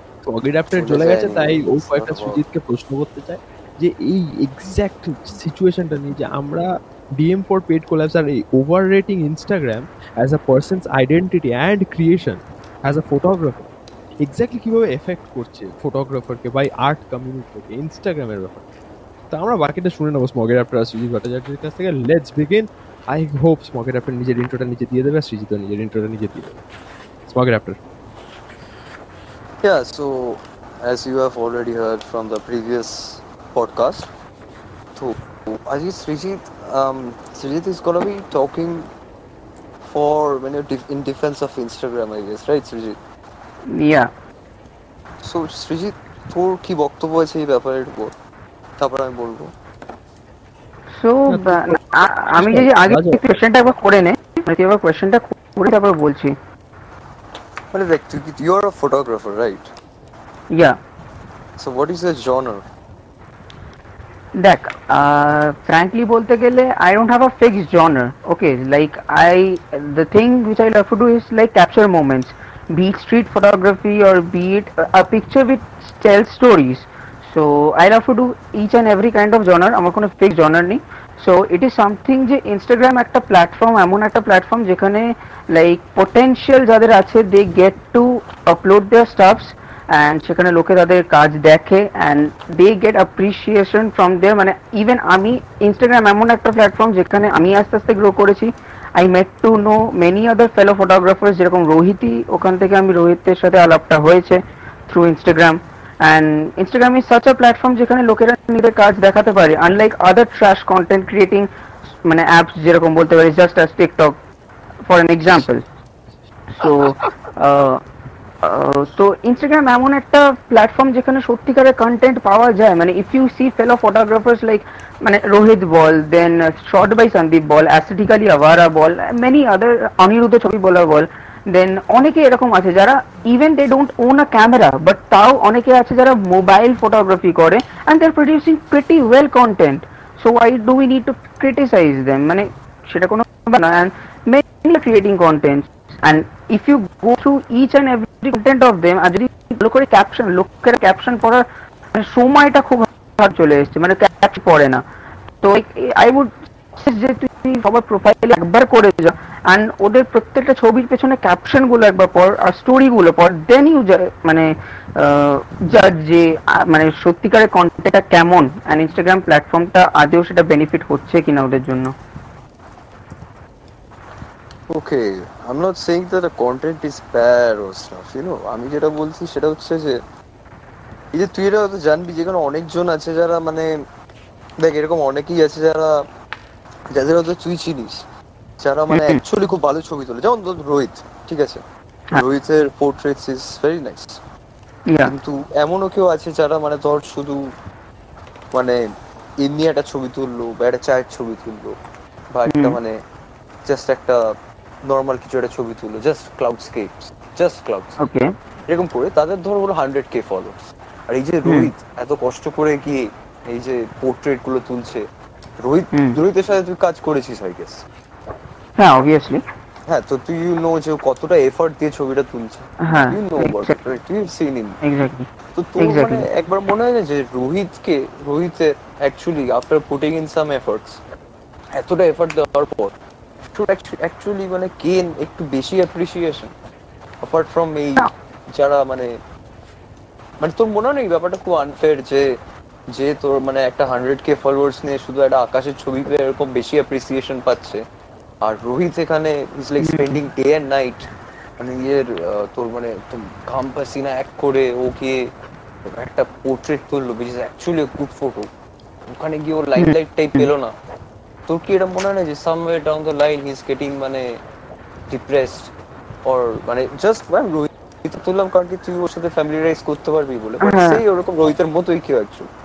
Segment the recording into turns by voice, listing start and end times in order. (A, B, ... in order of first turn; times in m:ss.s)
0:00.2-0:13.6 A
0:00.7-0:02.4 B
0:14.2-0:18.7 A
0:19.3-0:26.6 A
0:27.3-0:27.8 A
0:29.6-0:34.1 B
0:35.0-0:38.9 B
0:39.8-0:43.0 B
0:43.7-0:44.1 C
0:45.2-0:48.1 B
0:48.8-0:49.5 B
0:50.9-0:56.4 C
0:51.3-0:53.2 A
0:57.7-0:59.7 B
1:00.5-1:00.8 C
1:01.6-1:02.6 B
1:04.4-1:51.5 C
1:52.0-1:54.2 C
1:54.9-1:55.6 C
1:56.5-1:57.8 C
1:58.4-2:34.8 C
2:35.4-2:51.9 C
2:54.7-3:00.0 B
3:01.1-3:03.8 B
3:04.6-3:06.1 B
3:06.9-3:08.1 B
3:08.6-3:11.6 B
3:08.9-3:09.2 C
3:12.2-3:14.2 B
3:14.9-3:15.1 C
3:15.0-3:17.5 B
3:18.5-3:21.8 B
3:22.3-3:23.0 B
3:22.5-3:22.8 C
3:23.6-3:28.0 B
3:28.0-3:28.3 C
3:28.7-3:35.1 B
3:31.4-3:31.7 C
3:35.6-3:37.8 B
3:35.9-3:36.2 C
3:38.8-3:39.4 C
3:39.9-3:44.8 B
3:42.8-3:43.8 C
3:44.8-3:45.3 C
3:45.6-3:51.0 B
3:45.8-3:46.3 C
3:51.7-3:53.0 B
3:53.5-3:56.5 B
3:57.2-3:59.2 B
4:00.4-4:07.8 B
4:08.4-4:15.3 B
4:09.8-4:10.2 C
4:15.8-4:18.5 B
4:19.1-4:20.7 B
4:19.8-4:20.5 C
4:21.5-4:24.4 B
4:25.1-4:25.7 B
4:26.2-4:32.5 B
4:30.6-4:31.0 C